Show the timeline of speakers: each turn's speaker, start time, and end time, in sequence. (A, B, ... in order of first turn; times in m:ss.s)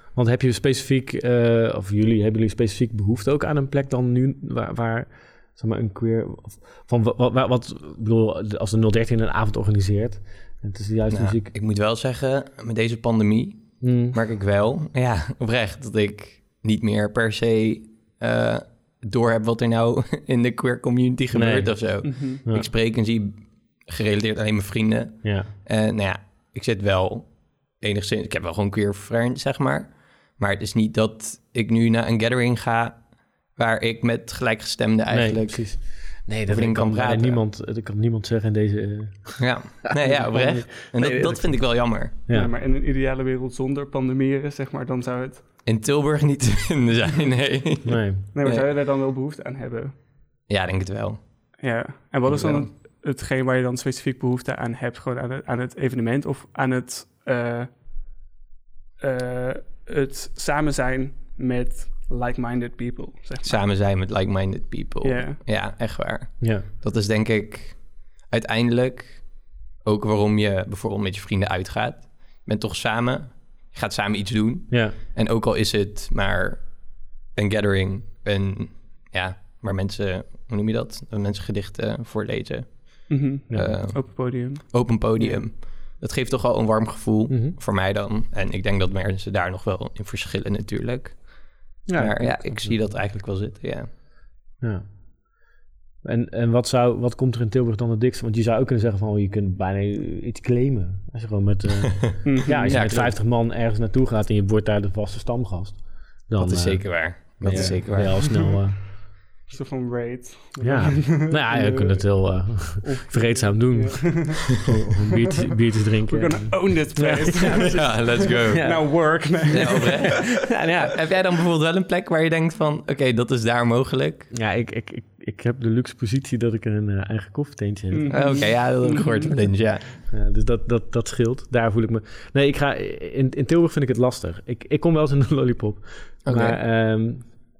0:00.1-0:11.5 A
0:11.1-0:37.4 B
0:13.8-0:14.2 A
0:21.3-0:22.7 A
0:22.0-0:22.4 C
0:25.2-0:25.5 A
0:35.1-0:42.5 A
0:39.4-0:42.1 B
0:42.3-0:45.4 C
0:45.6-0:48.7 B
0:47.8-0:48.3 A
0:48.3-0:50.0 C
0:50.5-0:51.6 B
0:51.6-0:57.7 C
0:52.3-0:52.7 B
0:59.0-1:03.6 C
1:03.4-1:33.9 B
1:05.0-1:05.4 C
1:06.4-1:06.7 A
1:14.7-1:15.0 A
1:23.1-1:25.5 C
1:23.5-1:23.8 A
1:27.3-1:27.6 A
1:31.9-1:33.1 A
1:34.6-1:34.9 A
1:36.0-1:48.9 A
1:42.2-1:42.8 C
1:42.6-1:43.2 B
1:46.4-1:48.4 B
1:47.4-1:48.5 C
1:49.5-1:54.7 C
1:50.6-1:59.5 A
1:56.1-2:00.3 C
1:57.5-2:04.3 B
2:00.5-2:01.0 A
2:04.3-2:08.6 A
2:07.9-2:09.3 C
2:08.1-2:09.9 B
2:09.5-2:17.4 A
2:16.2-2:16.6 B